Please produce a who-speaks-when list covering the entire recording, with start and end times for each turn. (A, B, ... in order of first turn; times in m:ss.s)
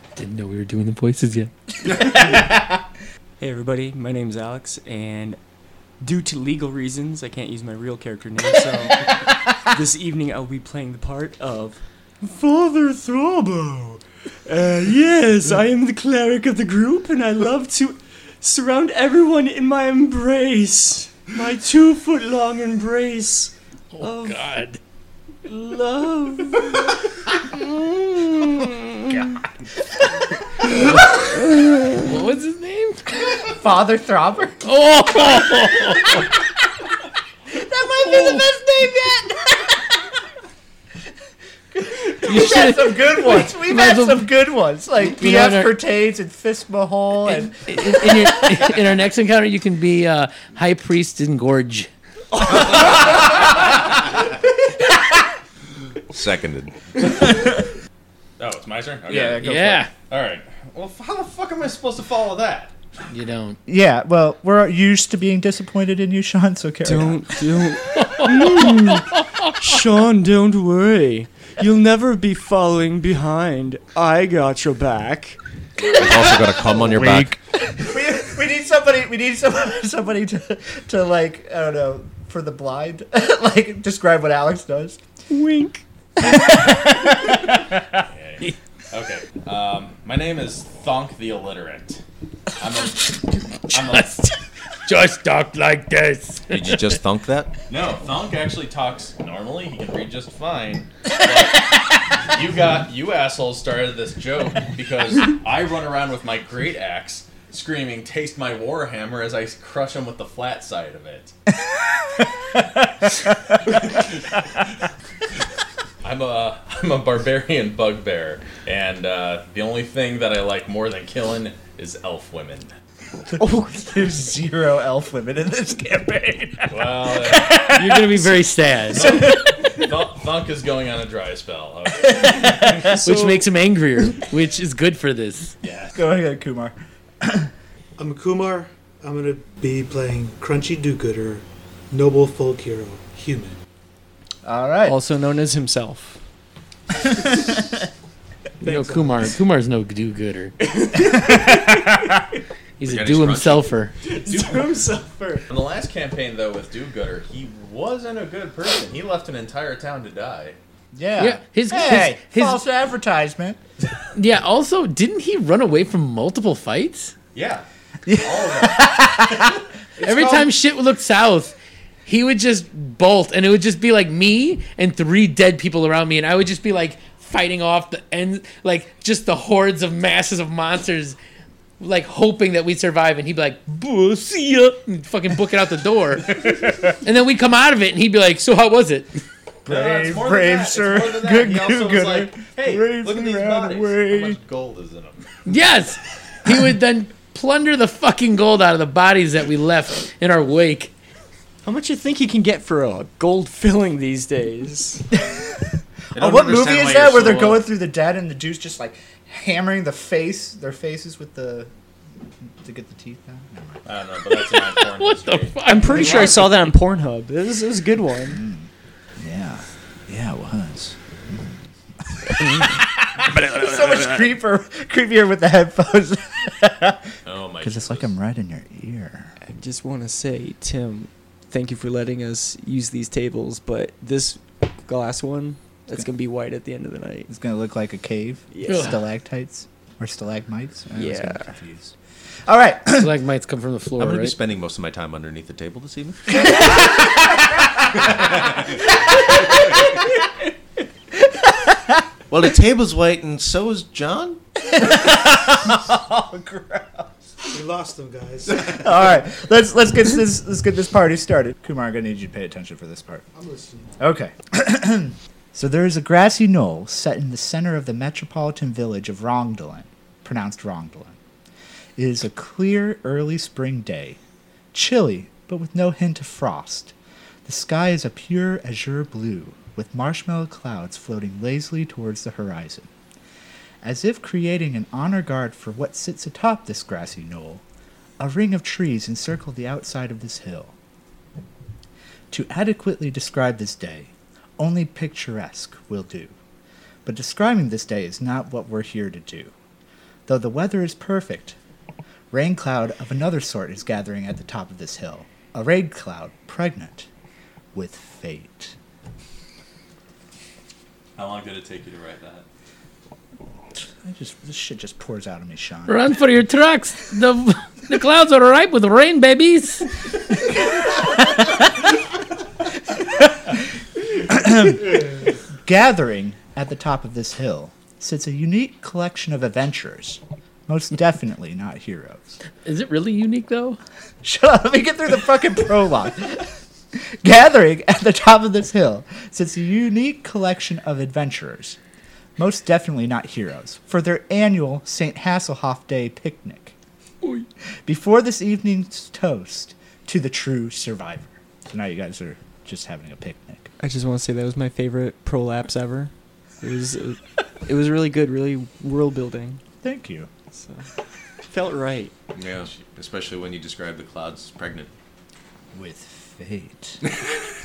0:00.2-0:01.5 A
0:01.9-0:02.2 B
0:02.1-0:02.7 C
0:03.4-0:05.4 D
0:06.0-0:24.4 D
0:23.9-0:24.8 A
0:25.4-0:29.3 D
0:31.5-0:31.9 D
0:32.0-0:33.1 A
0:33.4-0:35.6 C
0:34.6-0:36.3 A
0:37.5-0:40.1 C
0:38.0-0:38.4 A
0:41.7-0:48.8 C
0:42.2-0:44.3 A
0:45.1-0:45.8 A
0:47.2-0:51.9 A
0:56.1-0:57.2 B
0:58.4-1:02.7 E
0:59.0-0:59.6 B
0:59.4-0:59.9 A
1:03.1-1:03.6 A
1:03.6-1:07.5 C
1:06.8-1:15.4 D
1:07.9-1:09.5 A
1:15.9-1:17.4 B
1:16.9-1:25.0 C
1:25.3-1:25.8 D
1:26.2-1:27.4 C
1:28.1-1:32.0 E
1:32.6-1:34.2 E
1:33.8-1:34.2 A
1:34.8-1:37.0 A
1:36.5-1:37.5 B
1:37.7-1:51.3 E
1:52.0-1:53.3 C
1:56.0-2:02.7 E
2:03.4-2:08.4 C
2:03.4-2:03.8 D
2:06.7-2:07.7 E
2:07.7-2:09.2 A
2:08.9-2:13.0 E
2:08.9-2:09.4 C
2:12.3-2:12.6 C
2:12.9-2:15.5 A
2:15.6-2:16.0 E
2:15.9-2:17.5 C
2:18.0-2:23.6 F
2:24.4-2:25.0 C
2:24.8-2:26.2 D
2:28.6-2:30.5 A
2:28.6-2:29.3 F
2:30.6-2:31.8 D
2:31.2-2:31.8 C
2:32.8-2:33.9 A
2:32.8-2:33.7 B
2:34.1-2:35.4 F
2:34.1-2:35.4 D
2:35.5-2:40.6 E
2:40.9-2:43.6 C
2:41.2-2:42.6 A
2:44.1-2:47.1 A
2:47.3-2:48.8 E
2:48.0-2:49.6 C
2:50.0-3:01.2 A
3:01.8-3:09.2 A
3:09.6-3:14.4 C
3:09.7-3:15.2 E
3:15.4-3:20.9 A
3:21.6-3:25.1 D
3:25.2-3:25.6 C
3:26.1-3:31.7 C
3:26.2-3:27.6 B
3:32.6-3:33.9 C
3:33.8-3:35.6 E
3:34.8-3:36.4 A
3:35.6-3:38.4 D
3:36.0-3:36.3 C
3:38.3-3:42.8 C
3:42.4-3:44.3 D
3:43.3-3:49.3 C
3:47.2-3:47.9 E
3:49.4-3:57.3 D
3:57.3-4:01.9 C
3:58.5-3:59.0 D
3:58.6-3:58.9 A
4:00.9-4:01.5 D
4:02.4-4:03.1 C
4:02.9-4:04.3 A
4:04.0-4:06.9 B
4:06.5-4:07.2 C
4:08.0-4:08.5 B
4:09.1-4:09.8 C
4:11.2-4:12.0 C
4:12.3-4:14.4 B
4:14.7-4:17.1 C
4:17.4-4:18.9 F
4:18.5-4:23.2 C
4:23.3-4:23.9 F
4:24.0-4:31.2 C
4:32.0-4:34.2 C
4:34.7-4:42.9 C
4:43.8-4:47.6 C
4:48.2-4:50.7 C
4:52.3-4:56.3 C
4:57.0-4:59.5 C
5:00.3-5:01.6 C
5:02.3-5:07.1 C
5:07.7-5:08.8 C
5:11.2-5:12.4 E
5:13.7-5:16.1 C
5:15.9-5:19.9 A
5:20.9-5:21.7 C
5:22.9-5:32.4 C
5:32.6-5:33.8 A
5:34.2-5:41.8 C
5:42.4-5:46.7 C
5:47.8-5:53.7 C
5:53.8-5:59.6 D
5:59.8-6:00.3 C
6:00.5-6:00.9 D
6:01.4-6:02.1 D
6:02.3-6:04.9 B
6:05.7-6:07.0 C